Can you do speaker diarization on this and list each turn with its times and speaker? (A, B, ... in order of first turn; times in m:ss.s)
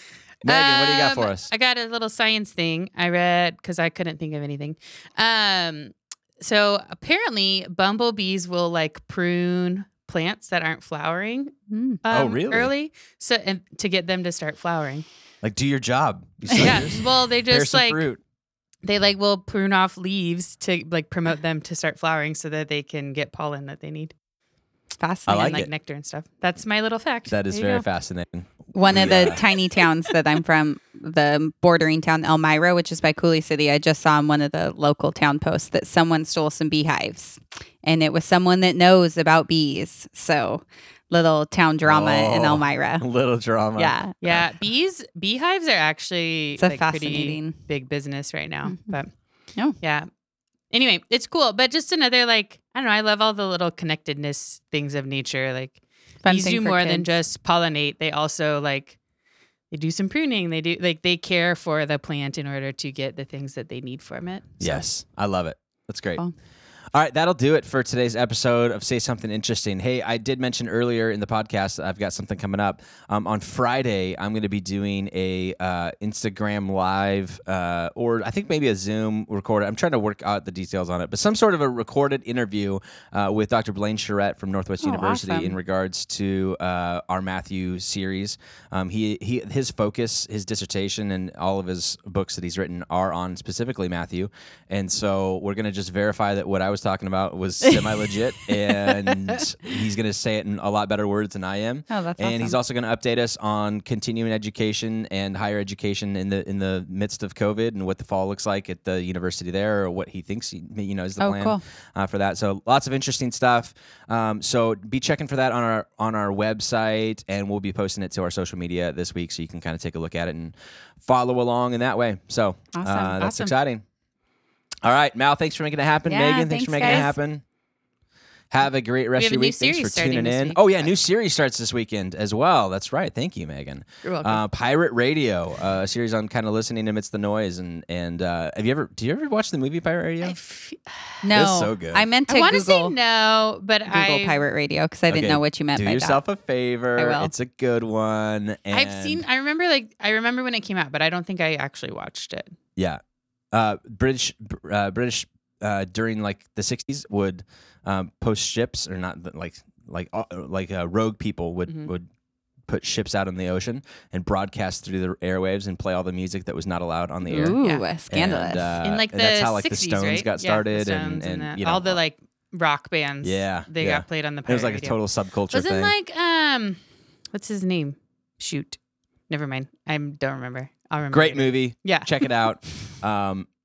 0:00.4-0:15.1 A
0:00.4-0:01.5 B
0:11.7-0:12.0 C
0:12.1-0:12.7 B
0:15.4-0:18.2 B
0:16.6-0:18.1 A
0:18.8-0:24.1 A
0:25.0-0:25.6 C
0:25.3-0:25.7 B
0:25.3-0:27.8 A
0:27.3-0:29.4 B
0:27.5-0:27.8 C
0:28.7-0:43.1 C
0:41.9-0:44.4 B
0:43.8-0:44.2 C
0:44.2-0:49.2 A
0:46.6-0:47.6 C
0:48.7-0:49.0 C
0:49.8-0:50.1 A
0:50.7-0:59.0 A
0:56.2-0:57.1 C
0:59.7-1:04.8 A
1:04.6-1:06.2 B
1:06.9-2:03.8 B
1:24.8-1:25.6 C
1:41.9-1:42.6 C
1:51.2-1:51.6 C
2:02.8-2:03.3 C
2:03.2-2:03.5 A
2:04.8-2:07.4 B
2:06.1-2:07.2 C
2:06.8-2:07.1 A
2:08.5-2:20.4 B
2:09.2-2:10.9 A
2:14.0-2:14.4 A
2:20.2-2:21.2 A
2:21.2-2:23.0 C
2:21.3-2:22.0 B
2:22.3-2:24.4 A
2:23.9-2:26.2 C
2:25.1-2:29.2 B
2:27.0-2:27.3 C
2:28.7-2:32.6 A
2:32.8-2:42.1 B
2:42.7-2:47.6 B
2:47.3-2:48.8 C
2:48.1-2:52.0 B
2:48.8-2:55.0 A
2:53.2-2:55.9 B
2:55.5-3:02.3 A
3:01.1-3:03.5 B